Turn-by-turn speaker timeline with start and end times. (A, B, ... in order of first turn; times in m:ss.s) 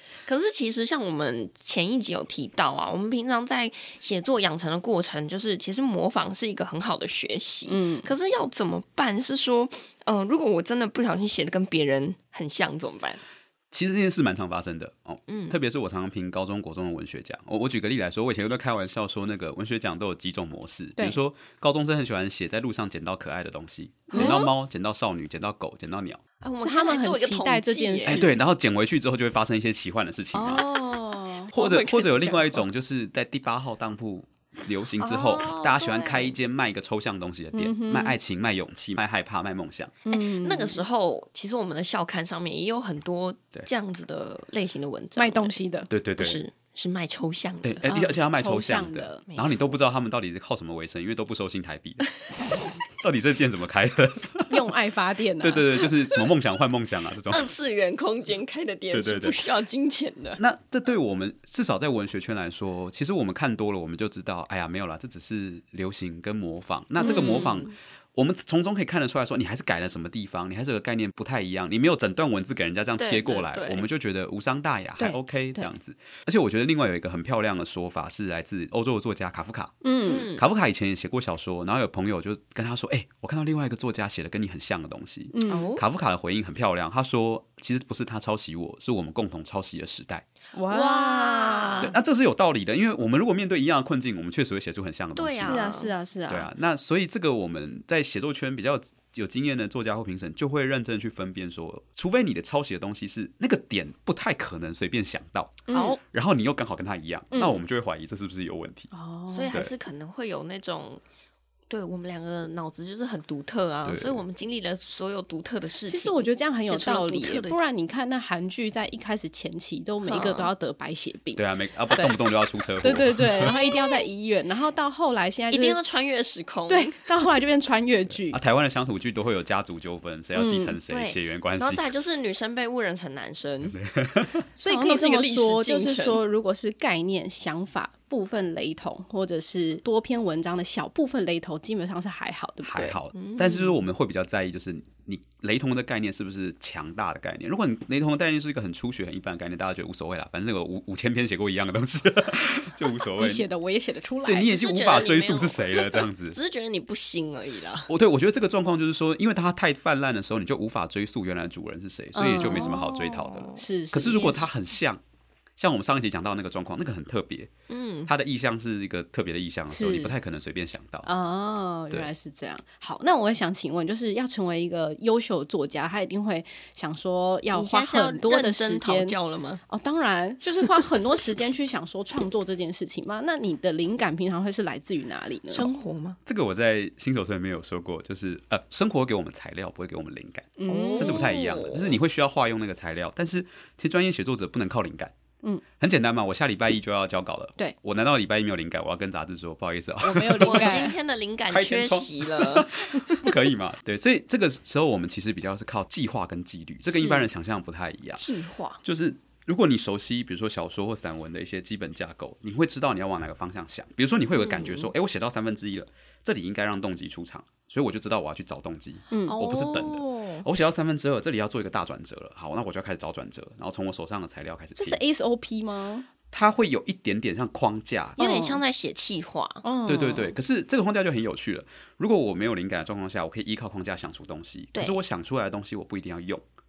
0:00.2-0:13.2 A
0:07.7-0:08.1 B
0:13.7-0:26.2 C
0:15.3-0:15.6 A
0:24.1-0:24.5 B
0:24.1-0:24.5 A
0:26.4-0:28.3 A
0:26.6-0:28.3 B
0:28.0-0:30.8 C
0:30.3-0:32.6 A
0:30.4-0:31.5 B
0:31.5-0:39.9 C
0:35.0-0:36.3 A
0:37.5-0:38.2 B
0:40.0-0:40.8 B
0:40.1-0:45.6 A
0:45.2-0:45.9 B
0:45.9-0:46.4 C
0:46.2-0:47.9 A
0:47.6-0:52.1 C
0:47.9-0:49.2 B
0:49.3-0:49.6 A
0:53.0-0:54.6 C
0:54.5-0:55.8 B
0:55.4-0:57.5 C
0:55.8-0:56.2 A
0:57.3-1:00.4 A
0:58.9-0:59.4 C
1:00.4-1:19.8 C
1:07.0-1:07.7 A
1:13.0-1:13.8 A
1:15.0-1:15.7 B
1:19.8-1:20.3 B
1:20.0-1:20.4 A
1:20.3-1:30.2 C
1:25.3-1:25.7 B
1:25.5-1:25.8 A
1:30.5-1:31.9 B
1:30.7-1:31.9 A
1:31.8-1:35.7 C
1:35.2-1:35.9 A
1:35.4-1:36.5 B
1:36.3-1:48.9 C
1:45.7-1:46.0 B
1:47.3-1:47.6 B
1:48.9-1:49.6 B
1:49.3-1:51.0 A
1:51.7-1:57.6 A
1:53.8-1:54.2 C
1:55.9-2:02.2 B
2:00.0-2:00.5 A
2:01.4-2:03.5 C
2:02.8-2:05.8 B
2:05.5-2:07.0 A
2:06.7-2:08.4 B
2:08.3-2:11.8 C
2:10.3-2:10.8 B
2:10.9-2:13.8 A
2:13.7-2:14.4 C
2:14.6-2:23.0 B
2:14.6-2:16.2 A
2:22.6-2:33.4 C
2:23.1-2:23.8 A
2:33.2-2:34.5 B
2:34.2-2:36.4 C
2:34.4-2:37.9 A
2:37.9-2:45.0 C
2:42.1-2:44.5 B
2:42.5-2:43.6 A
2:45.6-2:47.5 C
2:47.7-2:48.1 A
2:48.1-2:51.1 C
2:49.7-2:50.1 B
2:51.0-2:59.2 B
2:57.5-2:59.6 A
2:59.7-3:05.7 B
3:05.5-3:06.2 A
3:06.2-3:15.1 C
3:10.6-3:11.2 B
3:10.7-3:12.0 A
3:15.8-3:20.9 C
3:20.0-3:20.9 B
3:20.4-3:23.1 A
3:21.5-3:28.2 C
3:26.9-3:27.2 B
3:28.2-3:28.8 A
3:28.8-3:45.0 C
3:34.4-3:34.9 A
3:39.1-3:39.4 B
3:39.3-3:40.5 A
3:44.8-3:46.1 B
3:46.3-3:48.2 C
3:48.2-3:49.6 A
3:48.2-3:48.6 B
3:49.6-3:50.3 B
3:49.9-3:56.4 C